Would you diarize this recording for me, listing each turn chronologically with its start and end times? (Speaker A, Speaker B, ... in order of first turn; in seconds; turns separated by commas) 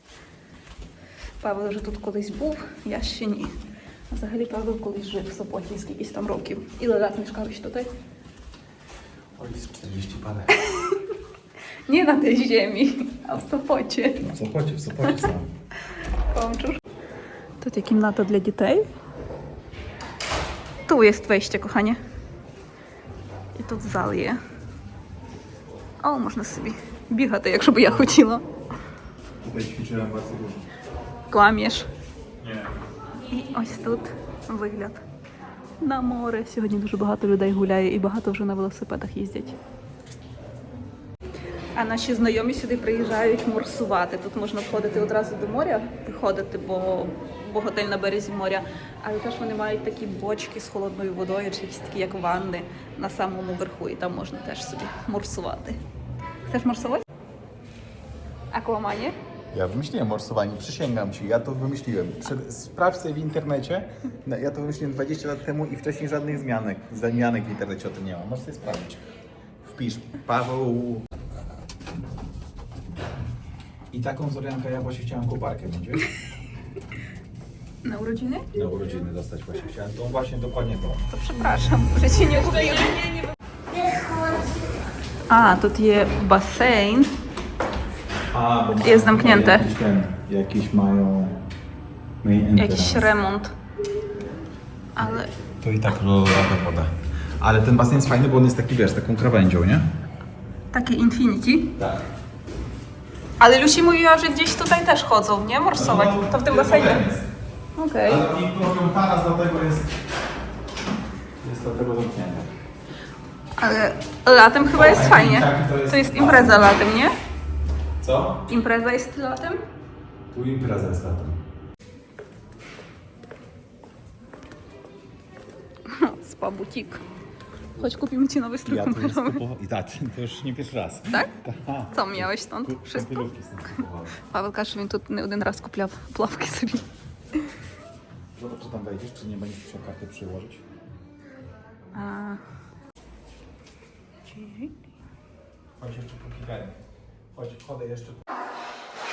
Speaker A: 1.4-3.5, Speaker A: 4.1-7.9, Speaker B: 9.3-10.5, Speaker A: 10.7-11.0, Speaker A: 11.9-14.3, Speaker B: 14.2-15.5, Speaker A: 16.3-16.8, Speaker A: 17.6-18.9, Speaker A: 20.9-22.0, Speaker A: 23.5-24.4, Speaker A: 26.0-28.4, Speaker B: 29.4-30.6, Speaker A: 31.3-31.9, Speaker B: 32.4-32.7, Speaker A: 33.3-35.0, Speaker A: 35.8-39.5, Speaker A: 41.8-55.8, Speaker A: 56.5-57.0, Speaker A: 58.5-59.1, Speaker B: 59.5-69.0, Speaker B: 69.6-71.1, Speaker B: 73.9-76.1, Speaker A: 77.8-78.5, Speaker B: 78.5-81.0, Speaker A: 81.1-83.1, Speaker A: 85.3-87.1, Speaker B: 88.3-91.4, Speaker A: 88.8-89.7, Speaker B: 92.2-93.1, Speaker A: 92.6-93.5, Speaker A: 95.0-95.3, Speaker B: 95.6-99.8, Speaker A: 100.7-101.7, Speaker B: 101.8-102.0, Speaker A: 103.4-107.0, Speaker B: 105.8-107.3, Speaker A: 107.8-108.2, Speaker B: 108.0-109.9, Speaker B: 111.4-112.5, Speaker A: 113.6-117.1, Speaker B: 114.7-116.8, Speaker B: 118.0-118.4, Speaker A: 118.5-119.6, Speaker B: 120.3-121.4, Speaker A: 125.9-127.0, Speaker A: 127.8-129.4, Speaker B: 128.6-134.2, Speaker A: 131.9-133.3, Speaker A: 134.2-136.8, Speaker B: 138.3-140.6, Speaker A: 141.9-142.4, Speaker A: 144.3-144.7, Speaker B: 145.8-146.8, Speaker B: 147.3-148.2